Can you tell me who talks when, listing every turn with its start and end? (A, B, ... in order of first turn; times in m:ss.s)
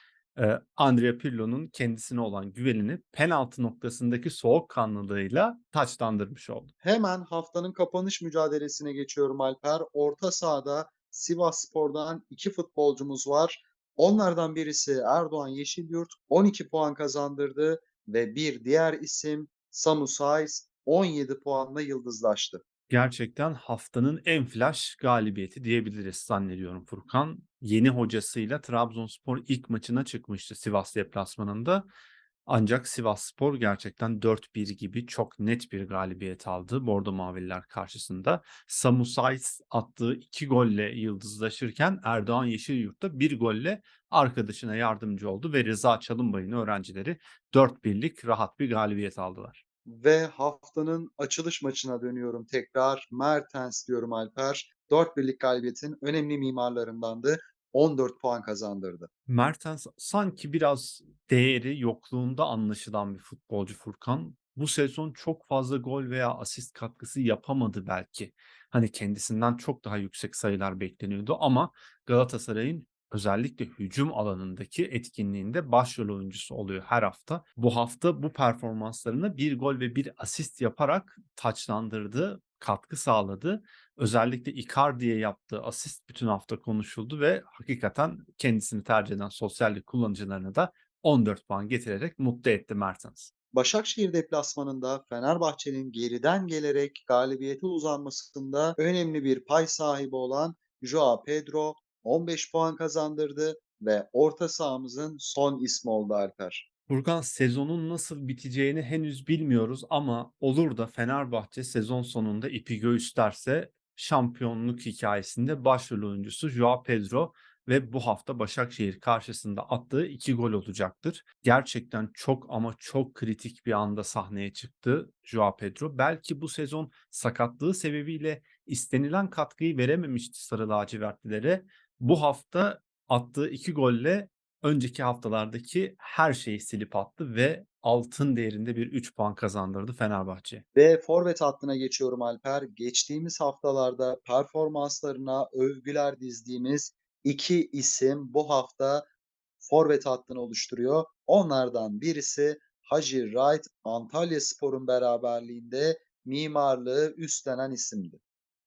0:00.3-0:06.7 A
0:06.8-0:22.6 B
0:22.9-0:31.8 A
0:32.5-0:49.6 A
0:49.9-0:59.1 B
0:59.3-1:33.3 A
1:33.5-1:46.6 B
1:46.9-2:20.6 A
2:20.7-2:29.0 B
2:29.6-2:38.2 B